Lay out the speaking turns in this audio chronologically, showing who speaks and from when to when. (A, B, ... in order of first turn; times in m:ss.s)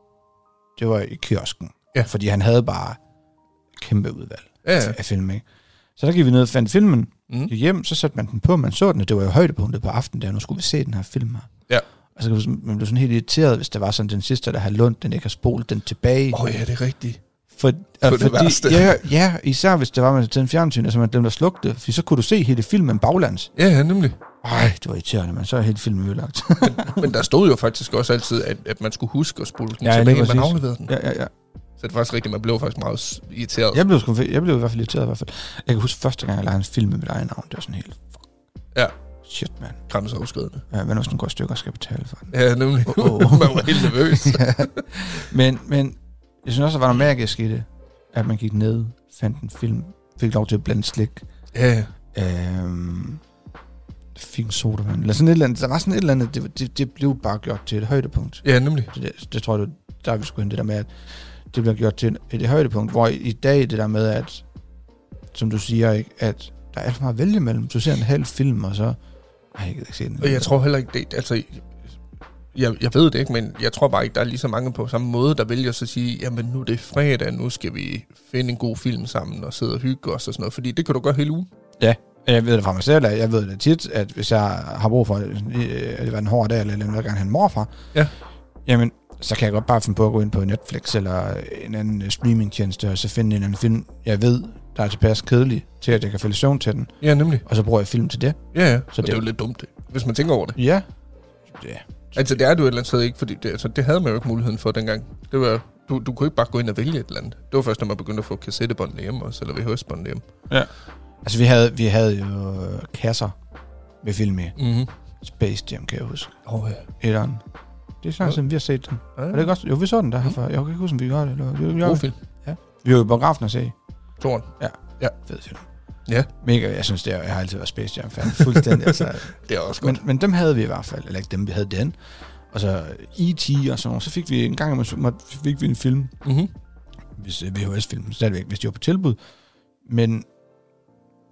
0:00.8-0:03.0 A
0:03.8-0:05.4 A
0:04.6-0:05.0 B
0:06.0-0:11.5 A
0:12.2-0:16.6 A
0:16.3-0:17.2 B
0:17.6-0:23.5 A
0:18.0-0:19.0 B
0:23.6-0:24.2 B
0:24.4-0:27.0 A
0:26.6-0:30.9 B
0:29.8-0:31.3 A
0:31.8-0:33.8 B
0:33.7-0:38.3 A
0:39.2-0:39.8 A
0:39.9-0:40.6 B
0:40.7-0:42.3 A
0:42.3-0:44.8 B
0:42.9-0:51.2 A
0:51.5-0:51.9 B
0:52.1-0:53.2 A
0:54.2-1:00.9 A
0:58.4-0:58.9 B
1:01.5-1:04.4 A
1:05.3-1:09.0 A
1:09.5-1:10.5 A
1:10.2-1:11.7 B
1:12.6-1:21.5 B
1:21.8-1:27.7 A
1:28.6-1:36.9 A
1:37.0-1:37.4 B
1:37.4-1:38.4 A
1:38.5-1:40.6 B
1:38.9-1:39.2 A
1:40.6-1:40.9 A
1:41.5-1:42.2 A
1:42.2-1:50.2 B
1:51.2-1:53.3 A
1:54.0-1:54.6 A
1:54.6-1:54.9 B
1:55.2-1:56.4 A
1:56.5-1:56.9 B
1:57.0-1:57.4 A
1:58.0-2:03.8 A
1:59.2-1:59.5 B
2:01.8-2:02.2 B
2:04.2-2:05.1 B
2:04.6-2:05.6 A
2:06.4-2:12.0 A
2:08.3-2:10.0 B
2:12.5-2:16.2 A
2:16.2-2:16.5 B
2:17.2-2:19.2 A
2:19.8-2:20.3 A